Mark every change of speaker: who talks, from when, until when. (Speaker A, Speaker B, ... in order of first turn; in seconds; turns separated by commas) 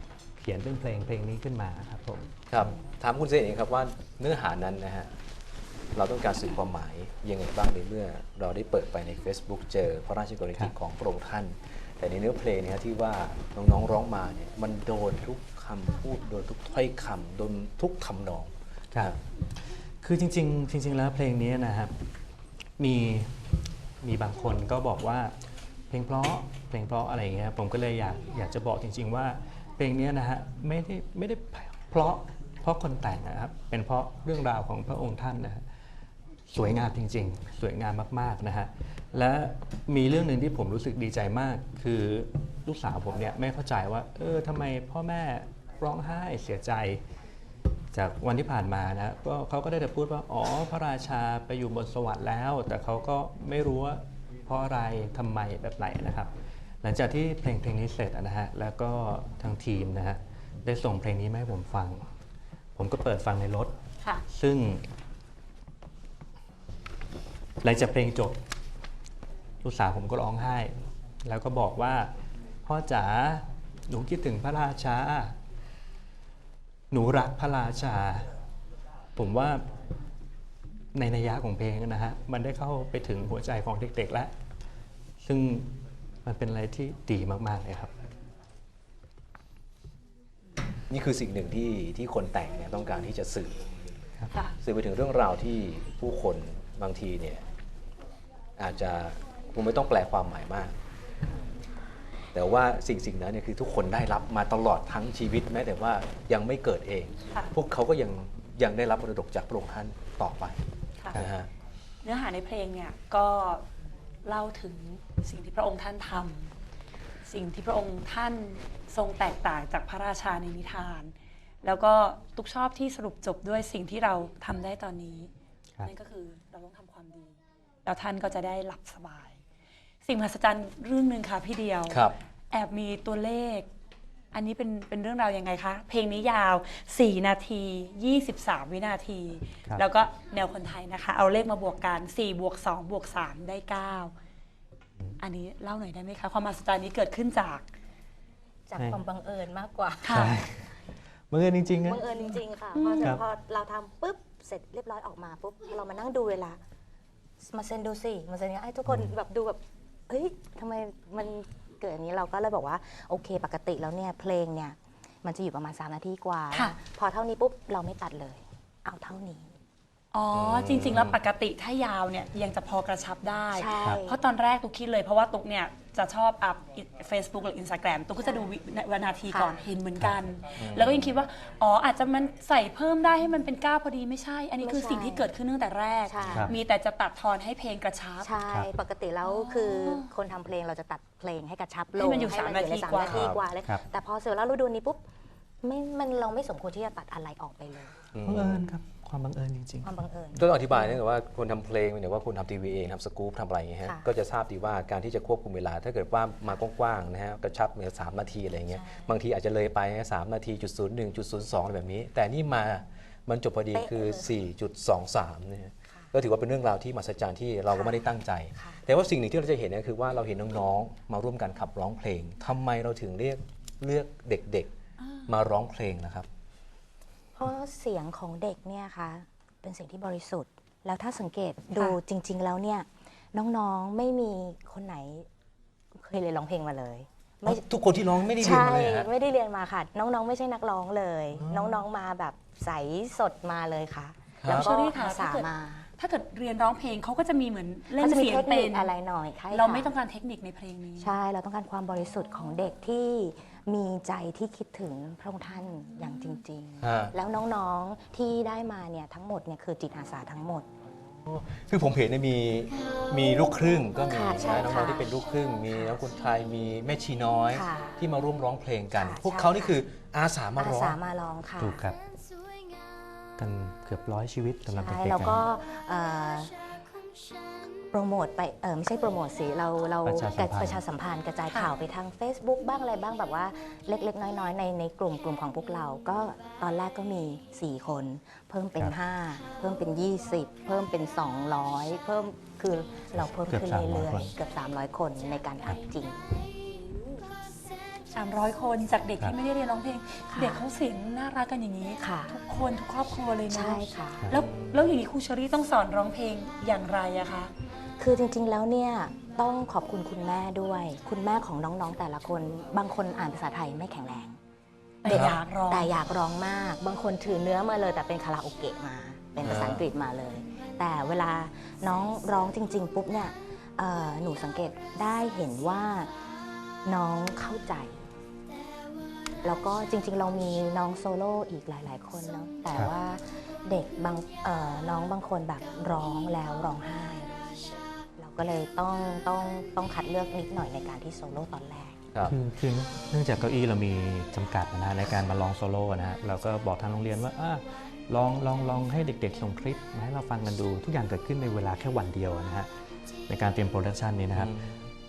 Speaker A: 0.4-2.3, Speaker B: 2.5-5.1, Speaker B: 5.9-19.2, Speaker A: 20.0-21.9, Speaker A: 22.8-23.4, Speaker A: 24.0-25.4, Speaker A: 25.9-35.6, Speaker A: 36.5-47.0, Speaker A: 47.9-62.1, Speaker A: 62.8-63.7, Speaker A: 64.3-64.8, Speaker A: 67.6-68.4, Speaker A: 69.6-72.1, Speaker A: 72.6-75.3, Speaker A: 76.9-78.3, Speaker A: 79.2-79.6, Speaker A: 80.9-84.3, Speaker A: 85.2-85.7, Speaker A: 86.2-87.9, Speaker B: 90.9-93.6, Speaker B: 94.6-97.4, Speaker B: 98.6-100.7, Speaker B: 102.3-110.6, Speaker B: 111.1-111.5, Speaker C: 112.0-113.7, Speaker C: 114.2-116.5, Speaker C: 117.2-125.3, Speaker C: 125.8-127.3, Speaker C: 127.8-129.4, Speaker C: 130.0-133.7, Speaker B: 131.9-132.2, Speaker C: 134.3-144.1, Speaker C: 145.2-147.7, Speaker D: 148.7-150.3, Speaker A: 148.8-149.0, Speaker C: 150.0-150.3, Speaker A: 150.1-150.8, Speaker A: 151.3-152.2, Speaker D: 151.8-156.6, Speaker C: 152.7-153.2, Speaker D: 157.4-169.6, Speaker A: 158.9-159.1, Speaker C: 170.1-188.3, Speaker B: 170.3-171.2, Speaker D: 173.5-174.2, Speaker D: 178.2-178.5, Speaker D: 179.3-179.6, Speaker B: 180.6-181.1, Speaker D: 184.6-185.3, Speaker D: 186.0-186.5, Speaker D: 188.2-195.0, Speaker C: 189.2-190.1, Speaker C: 191.9-193.3, Speaker B: 193.1-193.4, Speaker D: 195.6-198.0, Speaker B: 198.1-198.7, Speaker A: 198.2-199.9, Speaker D: 199.8-200.5, Speaker B: 200.3-224.7, Speaker D: 208.7-209.2, Speaker D: 213.7-214.3, Speaker D: 217.7-218.8, Speaker C: 225.0-225.3, Speaker B: 225.3-226.3, Speaker D: 227.3-235.3, Speaker D: 235.9-237.6, Speaker B: 237.4-239.1, Speaker D: 238.3-245.9, Speaker B: 241.4-241.8, Speaker B: 244.4-244.7, Speaker C: 244.4-248.9, Speaker D: 247.9-249.9, Speaker C: 249.5-251.1, Speaker D: 251.0-260.7, Speaker B: 256.8-257.1, Speaker B: 261.2-271.0, Speaker D: 264.0-265.1, Speaker D: 267.5-268.0, Speaker D: 268.9-269.8, Speaker D: 270.6-271.8, Speaker A: 271.6-272.0, Speaker A: 273.4-275.4, Speaker D: 274.7-276.5, Speaker D: 277.9-296.4, Speaker A: 280.0-280.8, Speaker C: 281.5-281.7, Speaker A: 293.2-294.3, Speaker C: 296.6-297.3, Speaker C: 298.1-307.5, Speaker D: 300.3-300.6, Speaker D: 302.0-302.4, Speaker D: 303.5-304.3, Speaker B: 304.4-304.8, Speaker D: 308.0-314.4, Speaker C: 315.0-315.9, Speaker B: 315.1-315.4, Speaker D: 315.1-326.1, Speaker B: 319.4-319.9, Speaker D: 326.8-328.1, Speaker D: 329.4-337.6, Speaker D: 338.2-342.0, Speaker A: 342.2-352.7, Speaker A: 353.3-354.6, Speaker B: 354.3-354.9